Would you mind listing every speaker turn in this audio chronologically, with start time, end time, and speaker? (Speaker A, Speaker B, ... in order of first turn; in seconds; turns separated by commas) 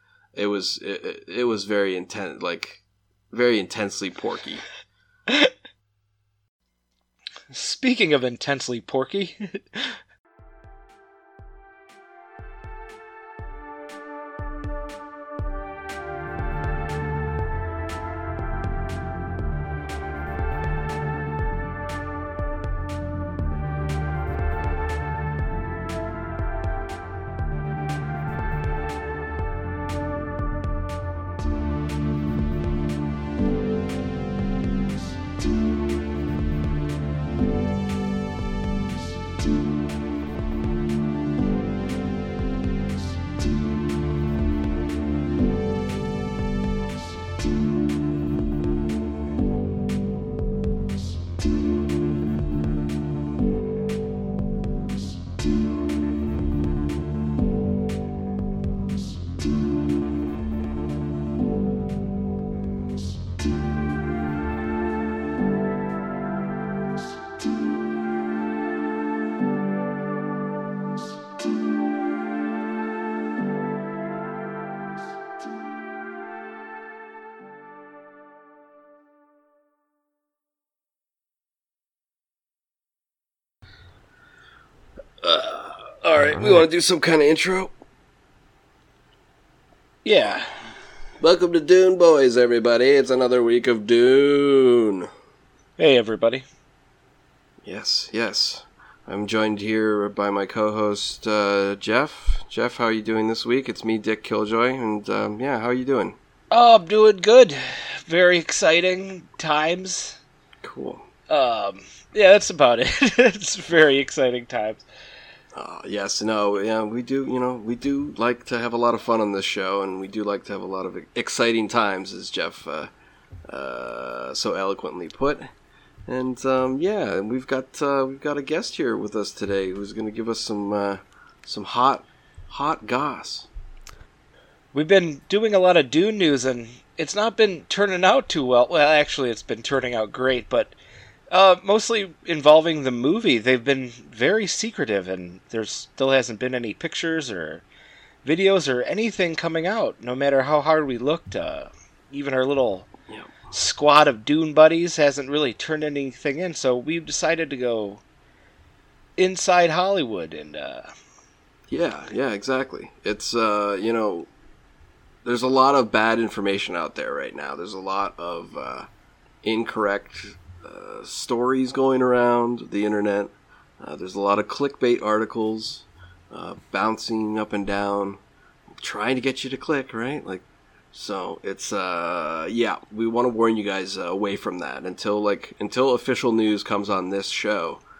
Speaker A: 0.3-2.8, Speaker A: 3.3-4.6, Speaker B: 7.5-9.8, Speaker A: 85.2-87.7, Speaker B: 90.0-90.5, Speaker A: 91.2-95.1, Speaker B: 95.8-96.4, Speaker A: 97.6-106.2, Speaker B: 106.5-110.2, Speaker A: 110.6-111.0, Speaker B: 111.3-114.8, Speaker A: 115.5-122.9, Speaker A: 123.5-125.5, Speaker A: 126.1-133.5, Speaker B: 134.7-140.7, Speaker B: 141.3-147.6, Speaker B: 148.2-152.9, Speaker B: 153.5-158.0, Speaker B: 159.2-160.9, Speaker A: 161.7-164.3, Speaker A: 165.2-168.9, Speaker A: 169.4-178.2, Speaker A: 178.8-187.8